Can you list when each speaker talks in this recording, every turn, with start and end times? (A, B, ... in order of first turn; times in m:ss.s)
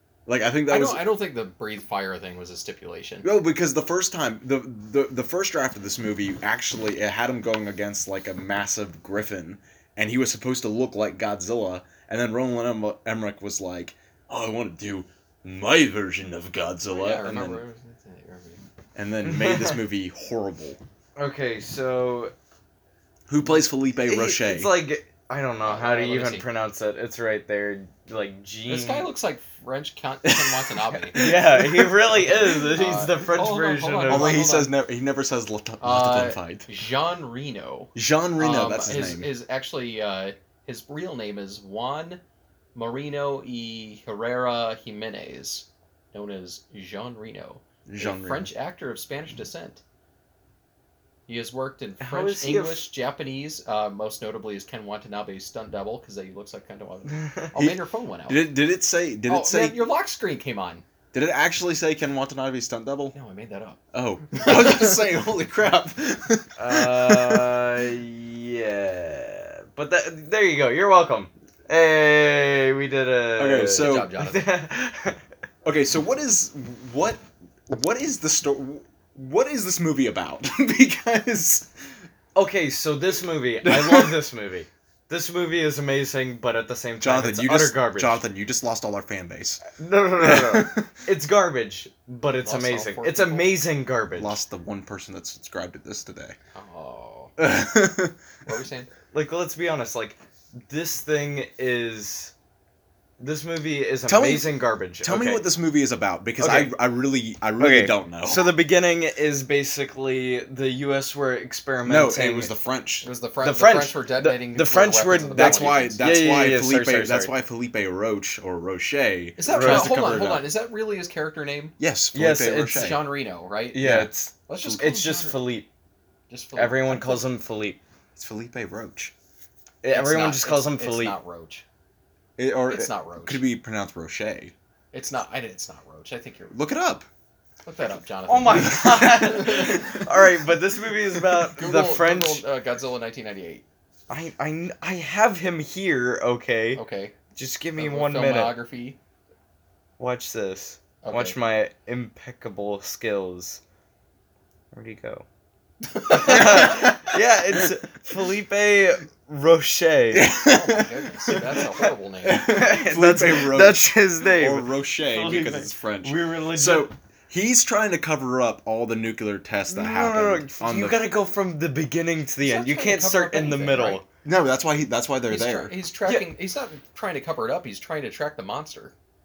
0:00.2-0:01.0 A
0:00.7-0:03.3 B
0:03.2-0:17.6 A
0:16.9-0:18.6 B
0:19.0-0:20.8 A
0:19.2-0:19.8 C
0:21.2-0:22.3 C
0:23.3-0:24.7 A
0:24.0-0:29.1 C
0:25.6-0:26.4 B
0:28.7-0:31.2 B
0:30.4-0:32.2 A
0:31.1-0:34.5 C
0:32.2-0:34.7 B
0:34.1-0:36.7 A
0:35.8-0:42.2 B
0:37.9-0:39.3 A
0:42.7-0:49.8 B
0:47.9-0:48.5 A
0:51.3-0:58.5 B
0:52.0-0:52.9 C
0:57.1-0:57.5 C
0:58.3-0:59.9 A
0:59.3-1:00.8 B
1:01.1-1:03.1 A
1:03.1-1:03.8 B
1:03.9-1:07.5 A
1:04.4-1:04.9 B
1:06.6-1:15.2 C
1:13.4-1:14.1 A
1:13.8-1:14.6 B
1:15.6-1:21.7 A
1:22.3-1:28.2 C
1:23.6-1:24.1 A
1:27.0-1:29.6 A
1:29.7-1:34.4 C
1:30.2-1:30.9 A
1:32.4-1:33.6 B
1:34.2-1:36.4 A
1:36.5-1:37.3 B
1:37.4-1:38.2 A
1:38.4-1:38.9 B
1:39.1-1:42.3 C
1:43.2-1:45.4 C
1:44.1-1:48.5 A
1:46.4-1:46.7 C
1:47.6-1:52.5 C
1:51.8-1:53.1 A
1:53.0-1:56.0 B
1:53.4-1:57.3 C
1:55.3-2:00.5 A
1:59.4-2:01.7 B
1:59.5-2:00.0 C
2:01.8-2:03.0 A
2:02.1-2:03.0 C
2:02.7-2:05.4 B
2:03.7-2:05.7 C
2:03.8-2:04.1 A
2:06.3-2:07.3 B
2:06.5-2:07.8 C
2:08.2-2:09.1 A
2:09.8-2:11.2 C
2:09.9-2:11.6 B
2:12.4-2:14.5 A
2:12.7-2:13.4 B
2:14.9-2:16.6 B
2:16.5-2:17.0 A
2:17.6-2:20.0 B
2:18.3-2:22.4 C
2:18.5-2:20.0 A
2:21.5-2:23.6 B
2:24.1-2:26.8 C
2:26.8-2:27.2 B
2:27.3-2:28.6 C
2:27.8-2:29.0 B
2:30.0-2:33.6 C
2:31.0-2:31.3 B
2:34.7-2:35.2 C
2:35.9-2:36.8 B
2:36.1-2:40.3 C
2:36.1-2:37.1 A
2:40.1-2:41.4 A
2:40.4-2:42.5 B
2:42.2-2:51.0 A
2:42.3-2:46.9 C
2:49.7-2:54.0 C
2:52.4-2:54.0 B
2:54.2-2:55.7 A
2:55.3-2:58.9 B